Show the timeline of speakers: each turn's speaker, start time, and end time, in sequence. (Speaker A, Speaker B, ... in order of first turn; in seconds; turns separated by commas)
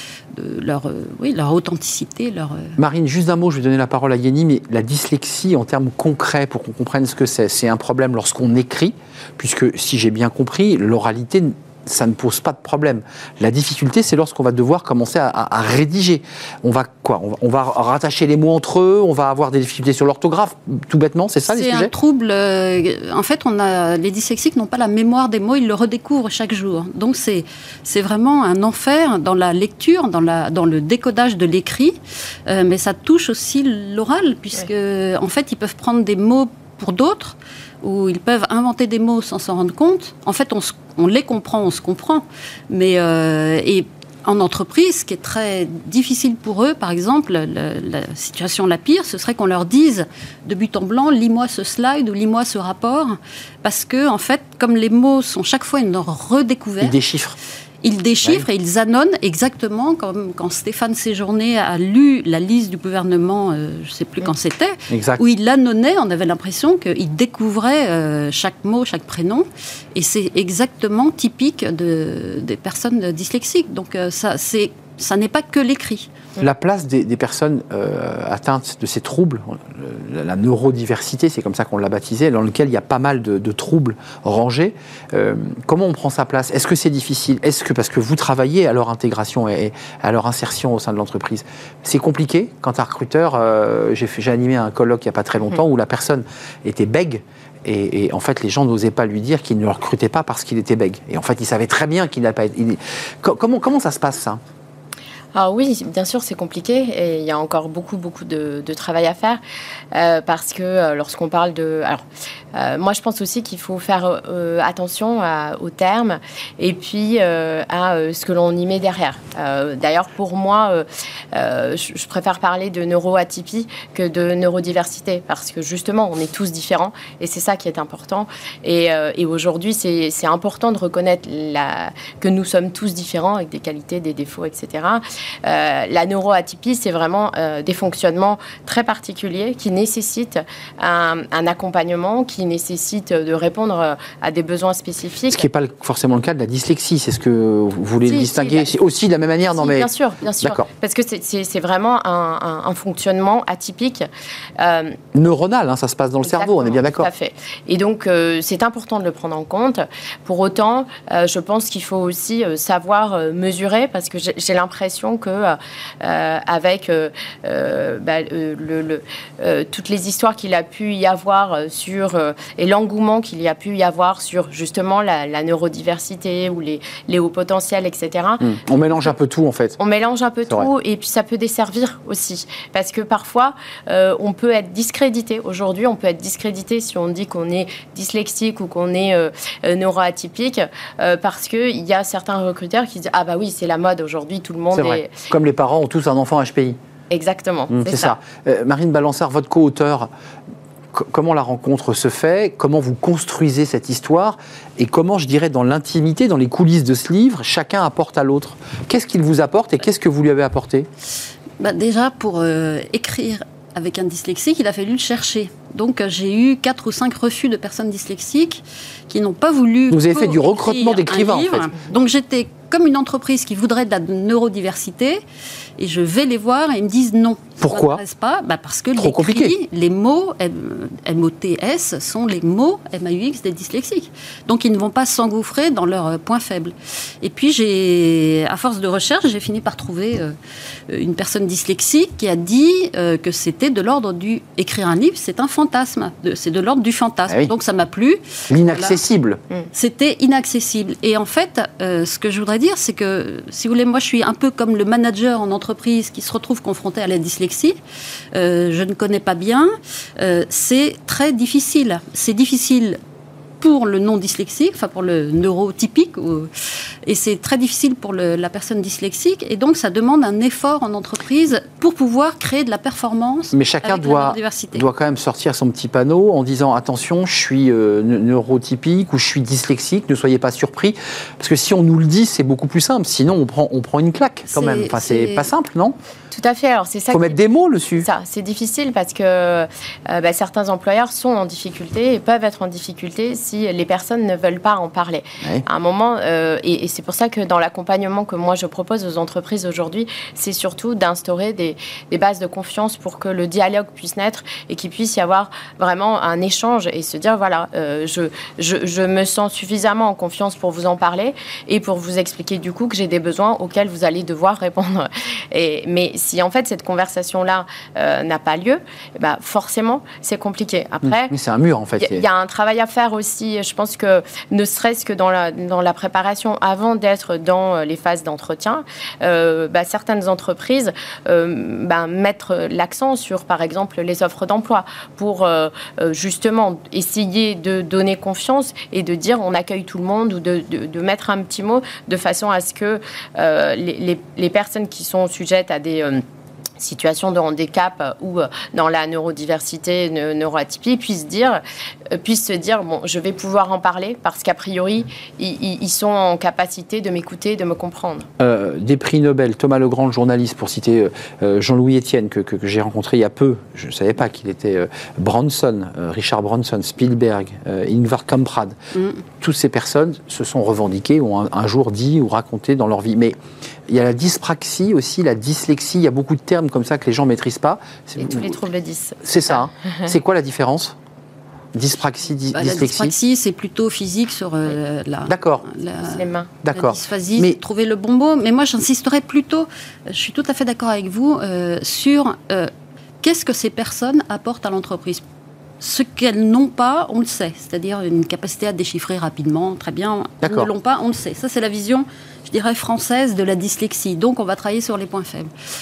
Speaker A: 0.3-2.8, Speaker B: 2.8-21.9, Speaker A: 21.5-57.0, Speaker B: 56.8-57.4, Speaker A: 57.8-76.1, Speaker B: 64.9-65.2, Speaker B: 76.4-104.4, Speaker C: 105.3-109.4, Speaker C: 109.9-112.0, Speaker C: 112.5-145.5, Speaker B: 145.3-149.9, Speaker C: 148.1-148.7, Speaker C: 149.5-155.0, Speaker B: 155.1-157.1, Speaker C: 156.2-179.1, Speaker B: 178.4-179.8, Speaker C: 179.8-195.1, Speaker B: 194.7-196.8, Speaker C: 197.1-198.2, Speaker B: 197.7-200.1, Speaker B: 200.9-210.9, Speaker A: 211.6-225.2, Speaker B: 219.9-221.7, Speaker A: 225.8-240.3, Speaker B: 227.6-228.0, Speaker B: 229.0-229.5, Speaker A: 240.9-249.0, Speaker B: 248.5-249.4, Speaker A: 249.7-257.8, Speaker A: 258.3-263.0, Speaker A: 263.6-266.5, Speaker A: 267.0-274.9, Speaker B: 273.5-286.0, Speaker A: 284.5-285.5, Speaker C: 286.3-287.4, Speaker B: 287.1-288.1, Speaker C: 288.0-321.3, Speaker B: 321.0-322.2, Speaker C: 322.0-346.2, Speaker C: 346.8-358.3, Speaker B: 358.4-368.8, Speaker B: 369.3-378.6, Speaker C: 378.2-380.1, Speaker B: 379.2-380.9, Speaker B: 381.7-383.1, Speaker A: 382.5-392.7, Speaker B: 385.3-385.6, Speaker C: 386.1-386.5, Speaker B: 386.6-387.6, Speaker A: 393.2-395.2, Speaker A: 395.8-405.5, Speaker B: 400.4-400.7